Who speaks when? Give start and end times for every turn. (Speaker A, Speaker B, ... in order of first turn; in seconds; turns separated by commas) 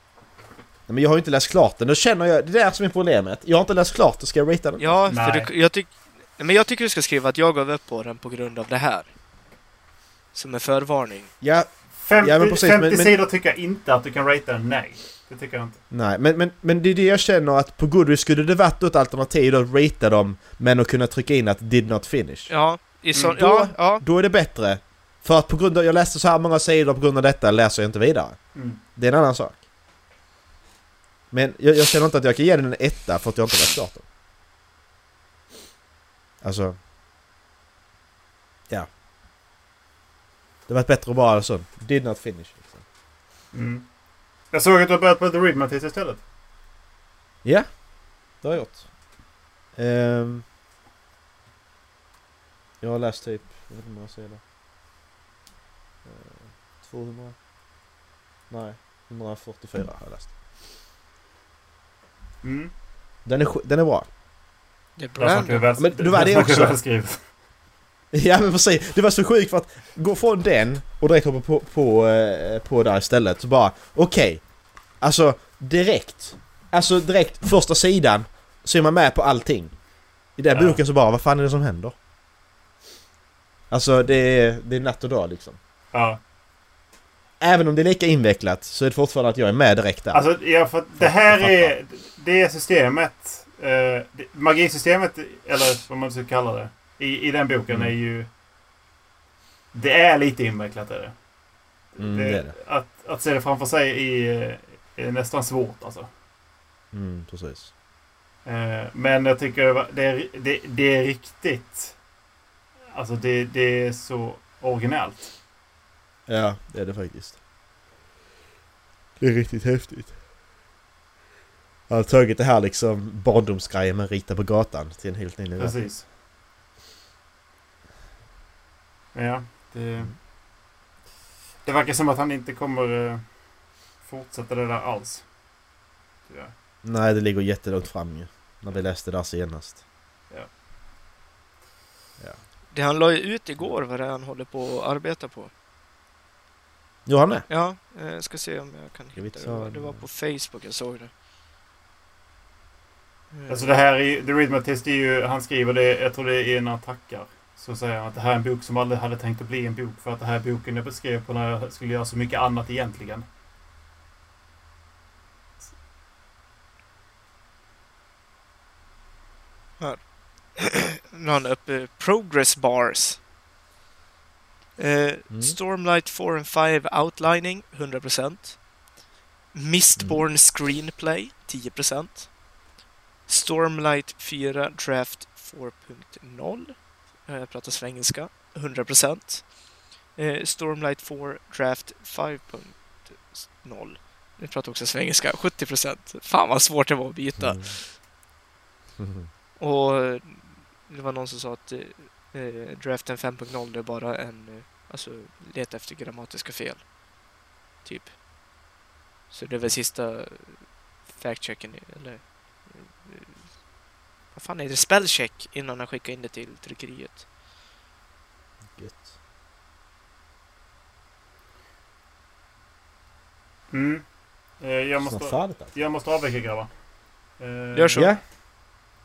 Speaker A: 0.9-5.0, Speaker B: 4.8-9.1, Speaker C: 5.1-5.5, Speaker B: 10.3-11.3, Speaker A: 11.4-13.1, Speaker C: 12.0-15.8, Speaker A: 15.9-22.5, Speaker B: 22.5-24.0, Speaker A: 23.2-28.4, Speaker C: 28.5-28.8, Speaker A: 28.9-29.6, Speaker A: 31.3-34.0, Speaker A: 36.4-36.8, Speaker A: 40.7-42.8, Speaker C: 43.5-43.9, Speaker C: 44.5-46.2, Speaker A: 48.4-48.9, Speaker A: 49.8-50.4, Speaker A: 52.8-54.4, Speaker A: 56.0-57.3, Speaker A: 58.5-60.3, Speaker C: 62.4-62.7, Speaker A: 63.2-64.1, Speaker B: 65.0-65.7, Speaker C: 65.2-67.2, Speaker A: 65.8-66.8, Speaker A: 68.1-74.4, Speaker A: 75.0-79.7, Speaker A: 80.4-81.9, Speaker C: 80.5-80.8, Speaker A: 83.7-85.6, Speaker C: 85.9-86.2, Speaker A: 87.4-90.2, Speaker C: 90.1-98.3, Speaker A: 91.0-91.7, Speaker C: 99.7-101.1, Speaker C: 101.9-106.1, Speaker A: 102.0-102.5, Speaker A: 106.9-107.7, Speaker C: 108.4-112.0, Speaker C: 112.9-115.3, Speaker A: 116.3-117.4, Speaker A: 119.2-120.1, Speaker A: 121.9-125.8, Speaker C: 125.6-126.0, Speaker C: 129.1-130.1, Speaker C: 131.7-133.2, Speaker C: 134.0-135.2, Speaker C: 136.3-136.5, Speaker A: 136.8-139.8, Speaker B: 142.7-145.5, Speaker A: 147.1-147.4, Speaker B: 147.5-151.1, Speaker A: 149.2-150.0, Speaker B: 153.3-153.7, Speaker C: 153.5-163.3, Speaker B: 170.5-173.2, Speaker B: 174.8-178.6, Speaker A: 175.3-175.6, Speaker B: 179.5-182.3, Speaker A: 180.0-180.2, Speaker B: 183.3-189.4, Speaker B: 190.2-197.9, Speaker A: 197.4-197.7, Speaker A: 199.0-199.3, Speaker B: 199.6-206.8, Speaker B: 207.8-208.1, Speaker B: 209.3-213.4, Speaker B: 214.3-217.2, Speaker A: 218.7-219.1, Speaker C: 223.7-224.0, Speaker C: 224.6-226.7, Speaker A: 225.0-225.7, Speaker C: 227.4-228.1, Speaker B: 227.7-228.1, Speaker A: 227.9-228.2